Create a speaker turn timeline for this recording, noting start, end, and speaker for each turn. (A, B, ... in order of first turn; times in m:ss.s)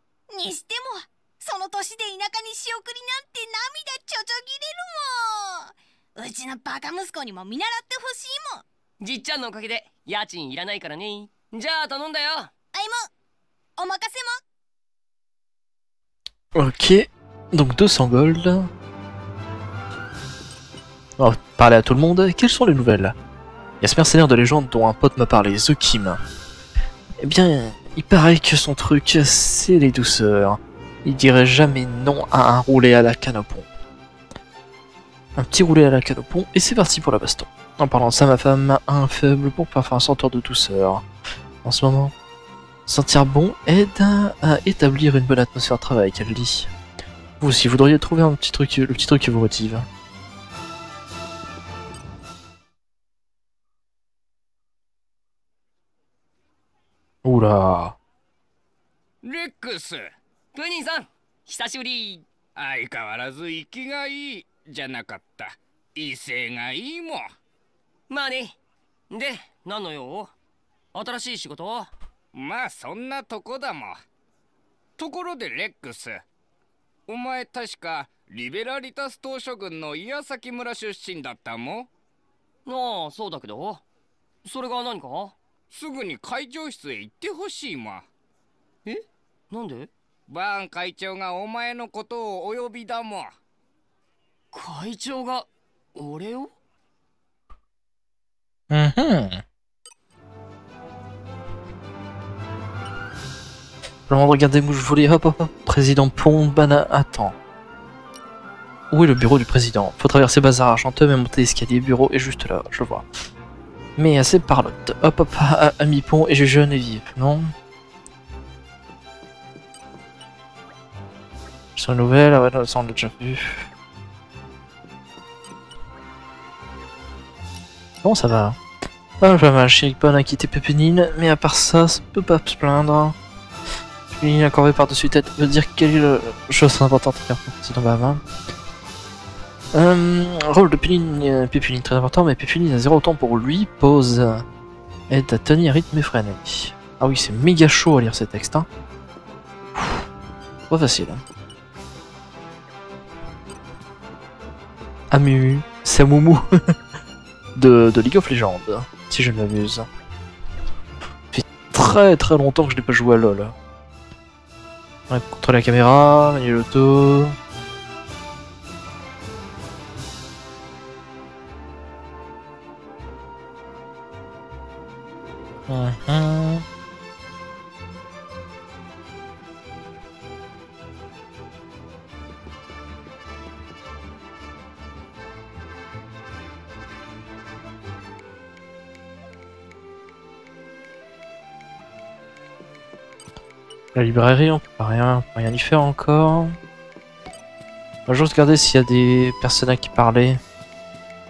0:00.3-0:08.6 A
0:09.0-0:12.5 B
0:12.7-0:13.1 A
0:13.8-0:14.4 A
0:16.6-0:18.7 C
0:21.2-0:23.2 C
0:23.8-0:26.2 C
0:27.2-0:33.7 C
0:35.4-0:41.0 C
0:41.6-0:42.1 C
0:42.9-0:46.7 C
0:47.4-0:49.9 C
0:57.2-0:58.0 C
0:59.2-1:00.2 D
1:00.6-1:02.3 B
1:02.6-1:07.4 D
1:08.1-1:08.6 B
1:09.1-1:10.3 B
1:10.9-1:11.9 B
1:12.3-1:14.0 D
1:15.0-1:16.2 D
1:17.1-1:21.9 D
1:22.7-1:23.8 B
1:24.4-1:25.4 B
1:25.7-1:28.1 D
1:28.9-1:29.9 B
1:30.3-1:33.4 D
1:34.5-1:36.5 B
1:38.7-1:39.4 C
1:44.1-1:47.4 C
1:48.9-1:53.0 C
1:54.0-1:57.5 C
2:01.8-2:03.7 C
2:08.0-2:08.6 C
2:09.2-2:13.2 C
2:14.1-2:18.2 C
2:19.7-2:24.5 C
2:25.1-2:28.7 C
2:29.7-2:30.1 C
2:30.7-2:31.2 C
2:35.1-2:36.7 C
2:37.6-2:39.9 C
2:41.3-2:43.6 C
2:45.1-2:47.4 C
2:55.7-2:56.7 C
3:13.9-3:16.6 C
3:18.1-3:20.4 C